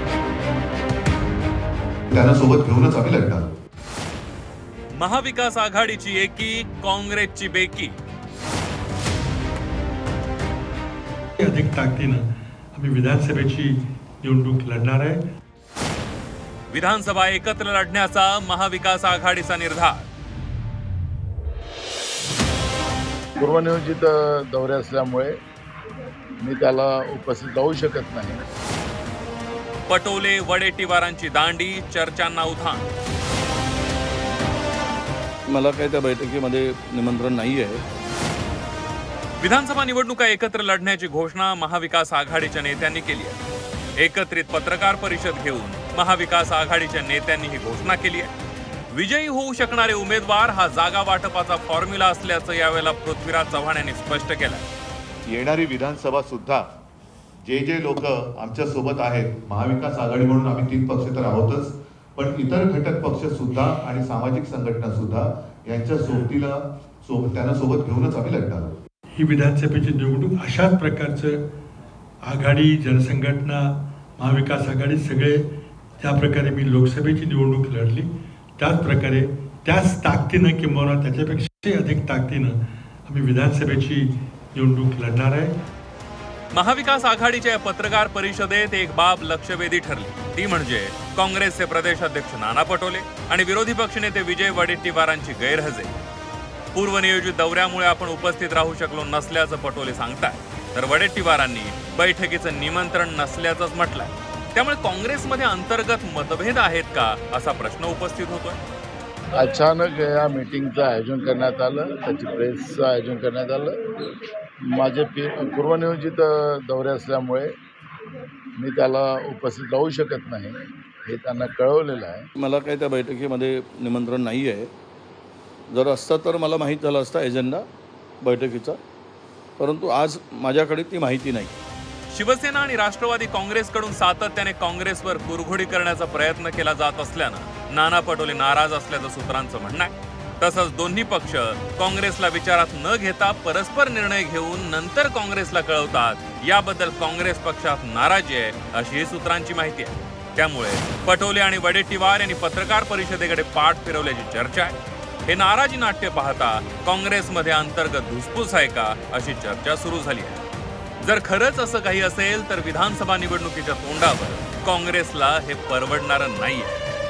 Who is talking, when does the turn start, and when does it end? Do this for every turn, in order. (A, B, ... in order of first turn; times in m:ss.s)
0:02.1-0:03.6 A
0:05.0-0:08.0 B
0:11.4-0:15.2 C
0:16.7-0:20.1 B
0:23.4-0:25.3 D
0:26.4-0:28.4 D
0:29.9-0:32.9 B
0:35.5-0:37.8 E
0:39.4-0:43.4 B
0:44.0-0:48.3 B
0:48.9-0:54.6 B
0:55.3-0:56.7 A
0:57.4-1:08.8 A
1:09.2-1:11.4 C
1:12.2-1:15.4 C
1:16.0-1:22.5 C
1:23.0-1:25.5 C
1:26.5-1:35.9 B
1:36.7-1:48.6 B
1:49.3-1:54.1 D
1:54.7-1:57.5 D
1:58.6-2:02.3 D
2:02.4-2:04.7 E
2:05.7-2:07.7 E
2:08.2-2:08.8 E
2:09.6-2:11.5 E
2:12.1-2:34.7 B
2:35.2-2:40.4 B
2:41.0-2:46.8 B